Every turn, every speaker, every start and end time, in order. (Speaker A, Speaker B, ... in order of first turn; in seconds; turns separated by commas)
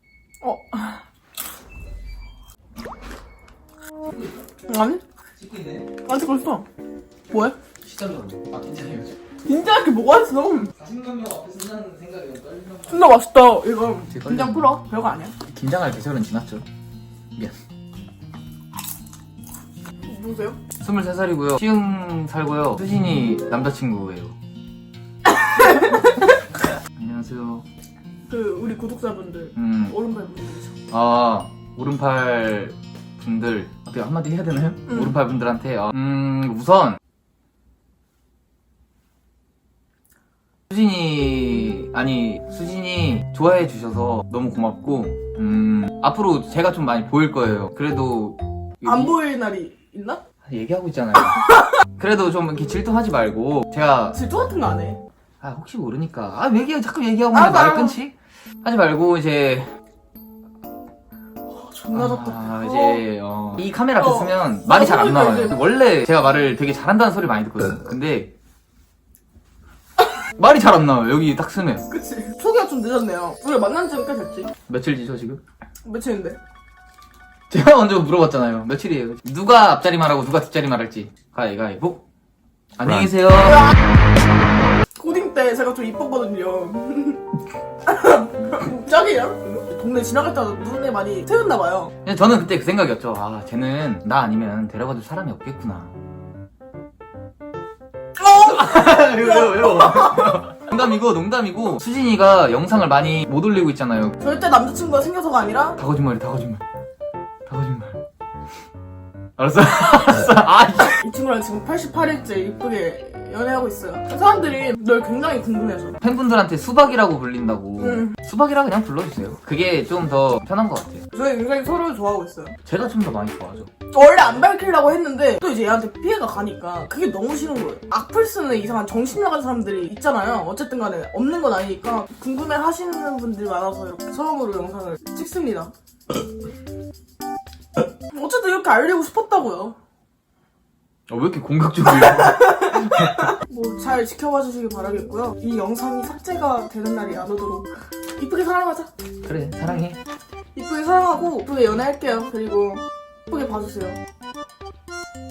Speaker A: 0.4-1.0, Speaker A: 4.7-5.0, Speaker B: 5.3-5.9, Speaker A: 6.0-6.7, Speaker A: 7.3-7.6, Speaker B: 7.8-9.2, Speaker A: 9.4-10.7, Speaker B: 10.8-13.1, Speaker A: 12.9-15.3, Speaker B: 14.1-14.6, Speaker B: 15.5-16.6, Speaker A: 20.1-20.6, Speaker B: 20.8-24.4, Speaker A: 25.6-25.9, Speaker B: 27.0-27.6, Speaker A: 28.3-30.7, Speaker B: 29.6-29.9, Speaker B: 30.9-37.0, Speaker B: 40.7-49.1, Speaker A: 48.8-50.2, Speaker B: 50.4-54.2, Speaker A: 54.1-55.0, Speaker B: 55.4-59.7, Speaker A: 57.3-58.0, Speaker A: 61.5-63.0, Speaker B: 61.9-68.3, Speaker A: 64.0-65.6, Speaker B: 70.3-71.9, Speaker A: 71.9-74.5, Speaker B: 74.7-75.4, Speaker A: 75.8-76.4, Speaker B: 77.5-82.0, Speaker B: 82.8-83.7, Speaker A: 85.0-87.2, Speaker A: 87.8-91.9, Speaker B: 92.0-95.9, Speaker B: 98.2-104.2, Speaker A: 99.5-99.9, Speaker A: 104.2-105.8, Speaker B: 105.8-106.6, Speaker B: 107.5-108.0, Speaker B: 109.4-111.0, Speaker A: 111.0-116.0, Speaker B: 116.0-121.0, Speaker A: 117.8-118.1, Speaker A: 121.1-122.5, Speaker B: 122.6-123.7, Speaker A: 123.9-135.7, Speaker A: 138.1-139.8, Speaker B: 141.1-143.3, Speaker A: 142.0-148.9, Speaker B: 149.2-150.0, Speaker A: 150.5-154.0